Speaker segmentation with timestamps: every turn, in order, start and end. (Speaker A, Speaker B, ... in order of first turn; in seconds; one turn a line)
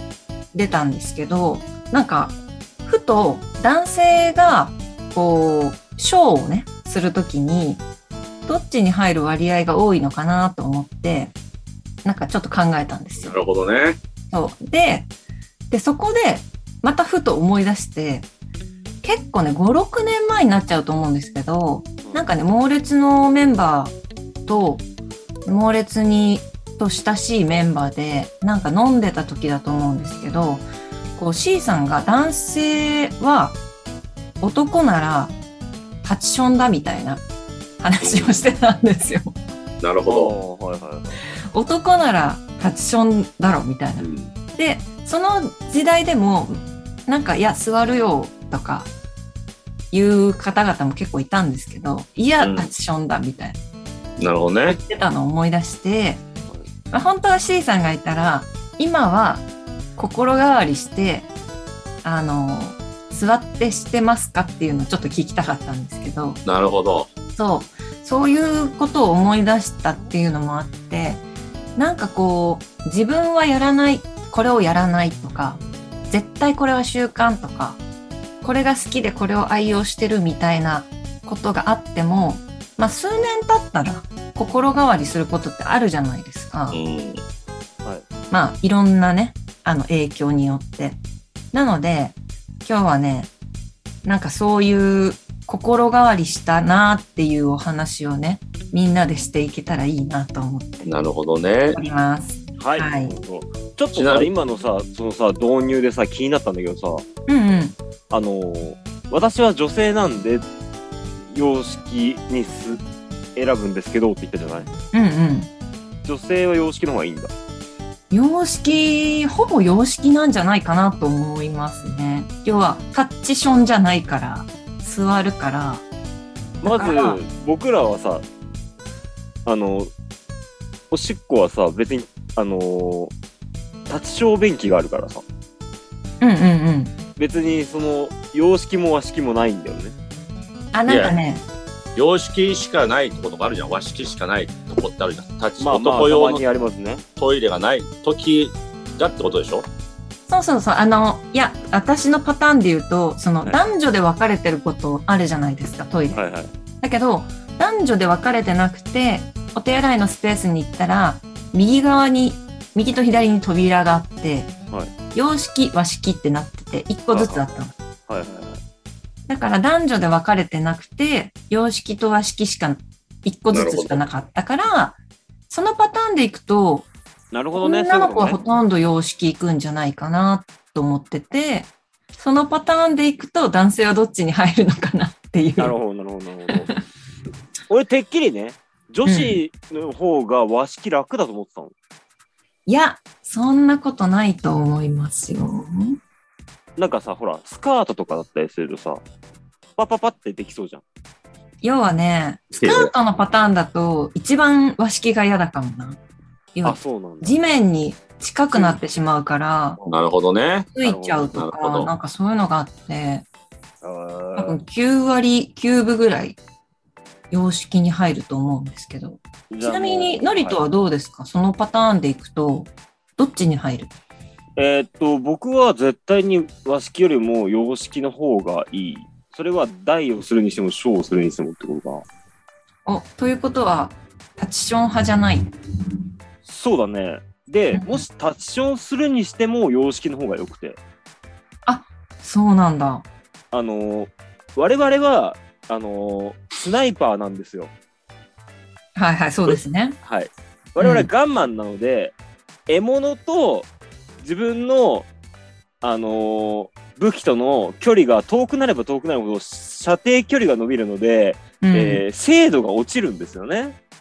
Speaker A: 0.5-7.8
Speaker A: 8.5-11.3
Speaker A: 12.1-13.4
Speaker B: 13.2-14.0
Speaker A: 14.3-15.1
Speaker A: 15.7-18.3
Speaker A: 19.0-23.9
Speaker A: 24.5-24.8
Speaker A: 25.5-33.6
Speaker A: 34.4-35.4
Speaker A: 36.0-37.2
Speaker A: 37.8-39.3
Speaker B: 38.0-38.5
Speaker B: 39.8-40.3
Speaker C: 40.0-41.2
Speaker A: 41.5-48.9
Speaker B: 44.0-44.3
Speaker A: 49.9-53.6
Speaker B: 52.4-52.7
Speaker B: 54.2-54.8
Speaker A: 54.7-56.2
Speaker A: 56.9-59.5
Speaker A: 60.0-61.3
Speaker A: 62.0-66.4
Speaker B: 66.5-67.1
Speaker A: 67.4-71.2
Speaker A: 71.8-77.8
Speaker A: 78.4-86.8
Speaker B: 86.7-87.2
Speaker A: 88.3-91.0
Speaker A: 91.5-93.3
Speaker A: 94.0-100.9
Speaker B: 100.9-101.8
Speaker A: 101.7-103.2
Speaker C: 102.6-107.0
Speaker B: 104.0-104.3
Speaker A: 107.3-107.8
Speaker C: 108.1-110.5
Speaker C: 111.3-112.8
Speaker C: 113.4-114.7
Speaker A: 114.9-115.5
Speaker C: 116.0-117.3
Speaker A: 118.1-125.8
Speaker C: 126.6-128.2
Speaker A: 126.7-127.2
Speaker C: 129.5-129.9
Speaker C: 130.9-133.1
Speaker C: 133.9-135.2
Speaker A: 136.2-136.9
Speaker C: 137.2-139.9
Speaker A: 140.7-141.4
Speaker B: 140.9-141.2
Speaker B: 141.9-146.4
Speaker C: 145.6-147.0
Speaker B: 147.2-149.7
Speaker A: 150.3-156.3
Speaker C: 156.1-156.5
Speaker A: 156.8-164.5
Speaker A: 165.1-167.7
Speaker C: 167.1-167.4
Speaker C: 168.1-168.6
Speaker A: 169.3-175.0
Speaker B: 173.5-174.0
Speaker A: 175.5-176.9
Speaker C: 177.3-178.4
Speaker A: 177.6-185.8
Speaker C: 185.6-186.7
Speaker C: 187.7-191.7
Speaker A: 189.1-189.4
Speaker A: 192.7-196.0
Speaker C: 196.8-199.0
Speaker C: 199.8-200.8
Speaker A: 201.6-206.0
Speaker B: 202.6-202.9
Speaker A: 206.6-209.8
Speaker C: 206.6-207.4
Speaker C: 208.5-208.8
Speaker B: 209.9-210.7
Speaker A: 210.8-213.3
Speaker C: 210.8-211.4
Speaker B: 211.3-211.9
Speaker C: 213.8-214.6
Speaker A: 214.4-216.4
Speaker A: 217.3-223.9
Speaker C: 219.5-220.6
Speaker C: 224.6-232.0
Speaker A: 232.9-235.5
Speaker C: 236.5-240.8
Speaker A: 237.7-238.1
Speaker A: 241.7-243.1
Speaker C: 243.5-247.7
Speaker A: 248.9-250.0
Speaker C: 249.5-252.2
Speaker A: 250.8-251.1
Speaker C: 252.7-253.7
Speaker C: 254.2-255.1
Speaker C: 255.8-263.8
Speaker A: 261.6-262.0